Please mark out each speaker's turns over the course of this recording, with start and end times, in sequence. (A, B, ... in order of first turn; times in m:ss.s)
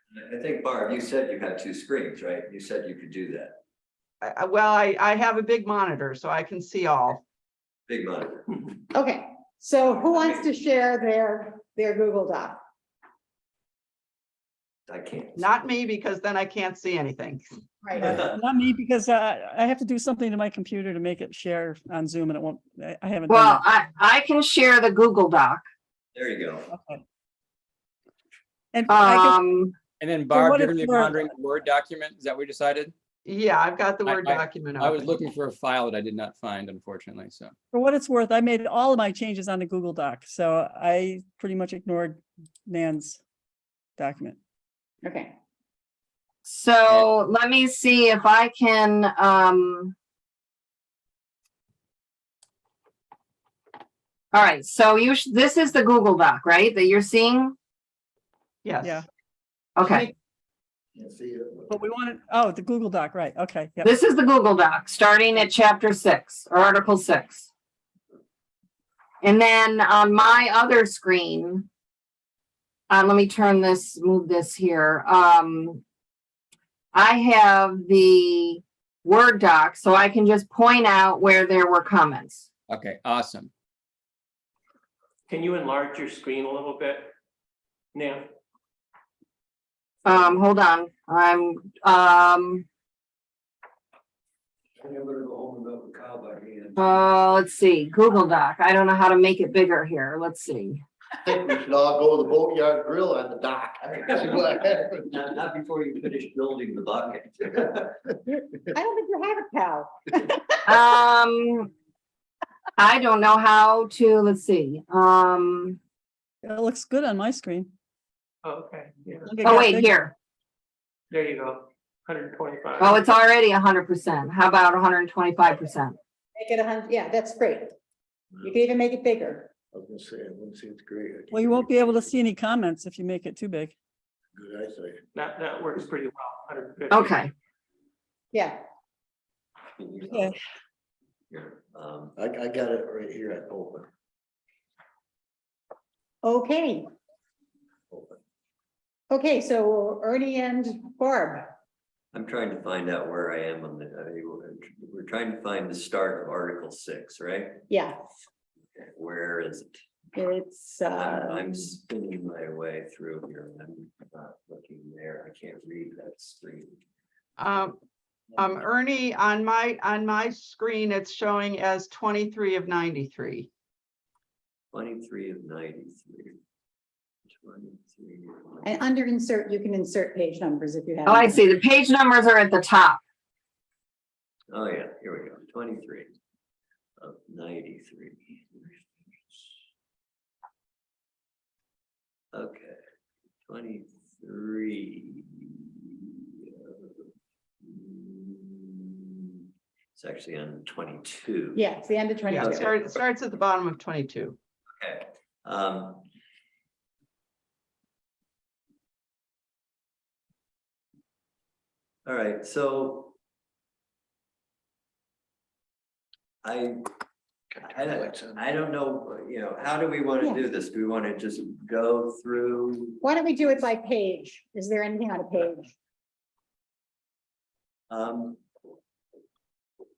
0:00.1-0:03.6 A
0:04.2-0:07.2 B
0:07.9-0:08.5 A
0:08.9-0:12.6 C
0:09.8-0:10.4 A
0:14.9-0:15.5 A
0:15.4-0:17.4 B
0:17.8-0:18.1 C
0:18.0-0:23.6 D
0:18.0-0:18.4 A
0:23.3-0:25.6 E
0:26.1-0:26.7 A
0:26.7-0:27.0 D
0:28.7-0:29.4 D
0:28.9-0:29.7 E
0:30.0-0:32.9 F
0:30.3-0:31.3 D
0:33.2-0:35.1 B
0:34.0-0:37.5 F
0:37.7-0:43.2 D
0:44.0-0:44.4 D
0:45.0-0:45.3 C
0:46.4-0:49.9 E
0:54.3-0:57.5 E
0:58.6-0:59.0 B
0:59.8-1:00.0 E
1:01.0-1:01.7 G
1:01.7-1:03.9 D
1:03.8-1:07.5 E
1:09.2-1:11.6 E
1:12.9-1:15.8 E
1:16.9-1:22.5 E
1:22.7-1:23.5 F
1:25.3-1:27.1 H
1:27.9-1:28.3 H
1:30.0-1:32.6 E
1:35.0-1:36.8 A
1:36.8-1:40.8 E
1:41.2-1:45.1 G
1:44.1-1:44.5 A
1:45.1-1:47.9 A
1:48.3-1:50.6 C
1:50.6-1:51.7 E
1:52.8-1:55.8 E
1:56.4-1:57.7 D
1:58.4-1:59.3 H
1:59.2-1:59.9 D
1:59.4-2:00.1 E
2:01.1-2:03.1 H
2:02.8-2:06.0 E
2:06.3-2:07.7 C
2:08.4-2:09.5 C
2:09.7-2:12.1 G
2:11.3-2:13.7 D
2:14.3-2:15.0 G
2:15.1-2:17.2 H
2:16.9-2:17.3 E
2:18.3-2:18.6 C
2:19.8-2:20.3 A
2:20.1-2:20.3 D
2:21.3-2:22.1 A
2:22.2-2:23.9 G
2:26.2-2:26.9 C
2:27.9-2:28.2 G
2:29.1-2:31.5 C
2:32.1-2:37.7 A
2:37.7-2:38.1 C
2:38.7-2:39.7 A
2:40.1-2:41.4 C
2:40.9-2:46.8 A
2:47.4-2:47.8 B
2:48.4-2:53.5 B
2:54.7-2:56.4 A
2:57.3-2:58.6 A
2:58.6-3:01.4 C
3:01.0-3:03.0 E
3:04.5-3:06.1 A
3:07.0-3:09.5 A
3:12.3-3:12.8 A
3:13.5-3:15.5 A
3:16.5-3:17.0 A
3:17.6-3:18.6 A
3:19.9-3:21.6 A
3:21.5-3:22.9 C
3:22.3-3:24.4 B
3:22.4-3:22.6 A
3:24.8-3:26.0 A
3:32.0-3:33.1 A
3:36.4-3:36.8 A
3:37.5-3:38.4 G
3:37.6-3:43.0 A
3:40.2-3:40.5 C
3:43.0-3:45.7 C
3:47.9-3:48.4 A